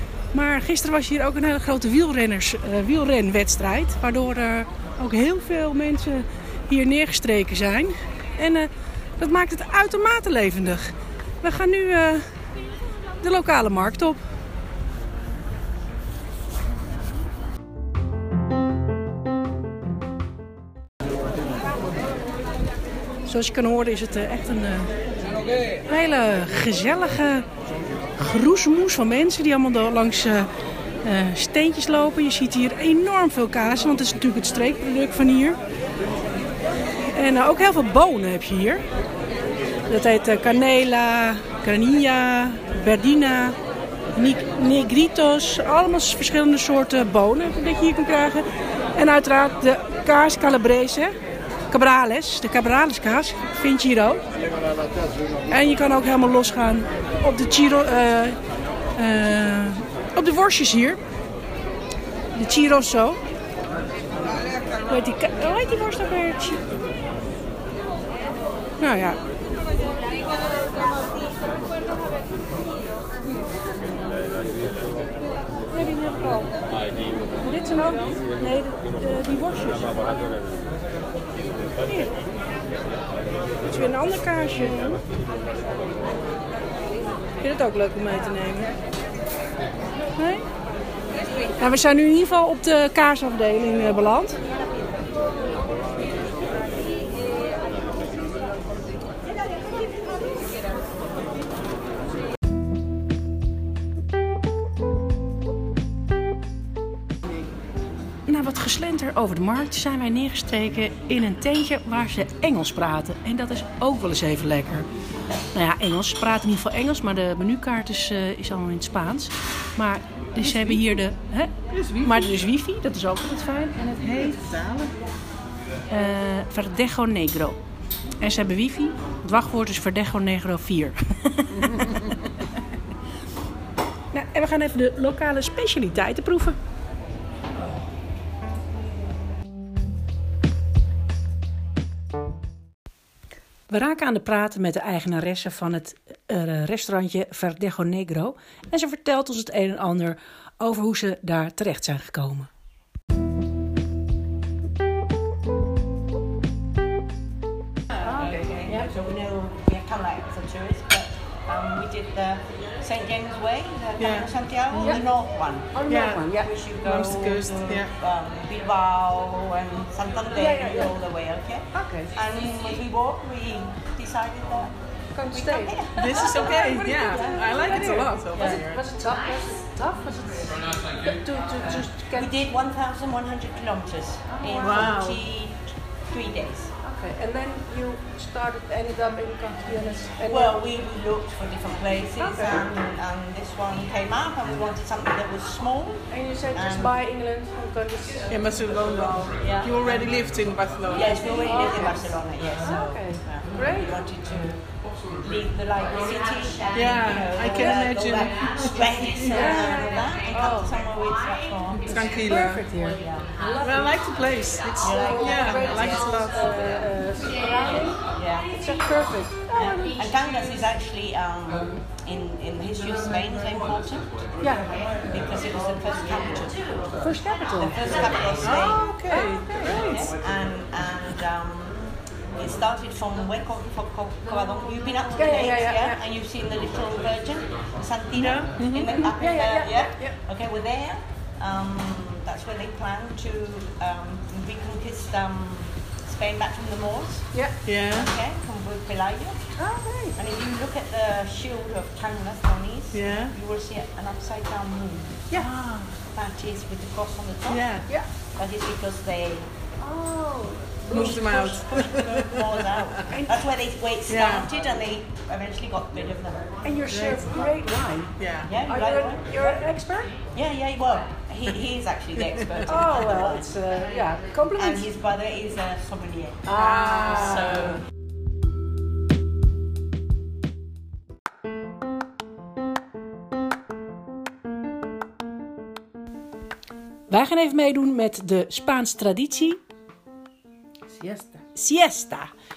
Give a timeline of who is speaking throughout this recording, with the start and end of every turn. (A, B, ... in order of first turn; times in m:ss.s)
0:00.3-0:12.2 A
0:13.2-0:14.2 A
0:23.2-0:24.9 A
0:25.8-0:27.4 A
0:28.2-0:30.5 A
0:31.0-0:35.6 A
0:37.1-0:38.8 A
0:39.9-0:43.6 A
0:44.1-0:51.1 A
0:51.7-0:54.2 A
0:55.5-0:58.4 A
0:58.9-1:01.0 A
1:02.3-1:03.2 A
1:04.8-1:06.6 A
1:08.8-1:09.2 A
1:15.7-1:16.5 A
1:17.4-1:20.0 A
1:21.8-1:22.2 A
1:23.7-1:25.0 A
1:27.4-1:28.7 A
1:30.2-1:30.4 A
1:31.6-1:34.4 A
1:48.2-1:54.9 A
1:55.5-2:03.9 A
2:00.4-2:00.8 B
2:01.7-2:02.3 B
2:03.8-2:04.9 B
2:05.9-2:07.6 A
2:08.2-2:11.9 A
2:14.1-2:16.6 A
2:23.7-2:32.5 A
2:38.0-2:54.7 C
2:38.0-2:38.9 A
2:44.0-2:45.0 B
2:44.8-2:45.0 A
2:45.7-2:46.5 A
2:45.9-2:47.9 B
2:50.4-2:50.9 A
2:51.7-2:52.1 A
2:55.1-3:02.3 A
2:55.3-2:57.4 C
2:56.0-2:58.8 B
3:02.1-3:06.7 C
3:04.3-3:05.1 A
3:04.6-3:05.2 B
3:06.8-3:10.6 A
3:10.2-3:17.0 C
3:12.2-3:12.6 A
3:16.1-3:18.3 A
3:18.3-3:21.7 B
3:19.4-3:20.2 C
3:20.9-3:24.6 C
3:21.4-3:23.9 A
3:25.2-3:32.1 C
3:26.7-3:29.4 B
3:27.4-3:27.8 A
3:29.3-3:30.7 A
3:31.7-3:33.0 B
3:32.2-3:34.0 A
3:32.9-3:33.3 C
3:33.6-3:36.6 B
3:34.8-3:36.1 C
3:34.8-3:40.1 A
3:38.1-3:38.5 C
3:39.5-3:46.8 C
3:44.4-3:44.7 A
3:47.0-3:47.8 A
3:47.5-3:49.0 C
3:48.4-3:50.1 B
3:49.0-3:50.1 A
3:49.6-3:51.8 C
3:52.4-4:09.5 C
3:55.1-3:56.0 A
3:58.2-3:58.9 B
3:58.8-4:00.2 A
4:07.6-4:08.1 B
4:09.6-4:10.2 A
4:10.1-4:15.3 C
4:12.9-4:13.3 B
4:15.3-4:15.9 B
4:16.1-4:17.8 C
4:17.5-4:17.8 B
4:18.4-4:19.4 C
4:19.8-4:21.5 A
4:20.9-4:22.6 B
4:20.9-4:26.5 C
4:23.1-4:23.4 A
4:24.1-4:24.5 B
4:26.6-4:30.1 A
4:26.9-4:27.4 B
4:28.2-4:28.5 B
4:28.4-4:29.5 C
4:30.3-4:33.4 C
4:32.6-4:34.9 A
4:34.6-4:36.5 C
4:36.4-4:37.6 A
4:36.5-4:37.8 B
4:37.1-4:37.7 C
4:47.1-4:49.6 A
4:51.0-4:52.3 A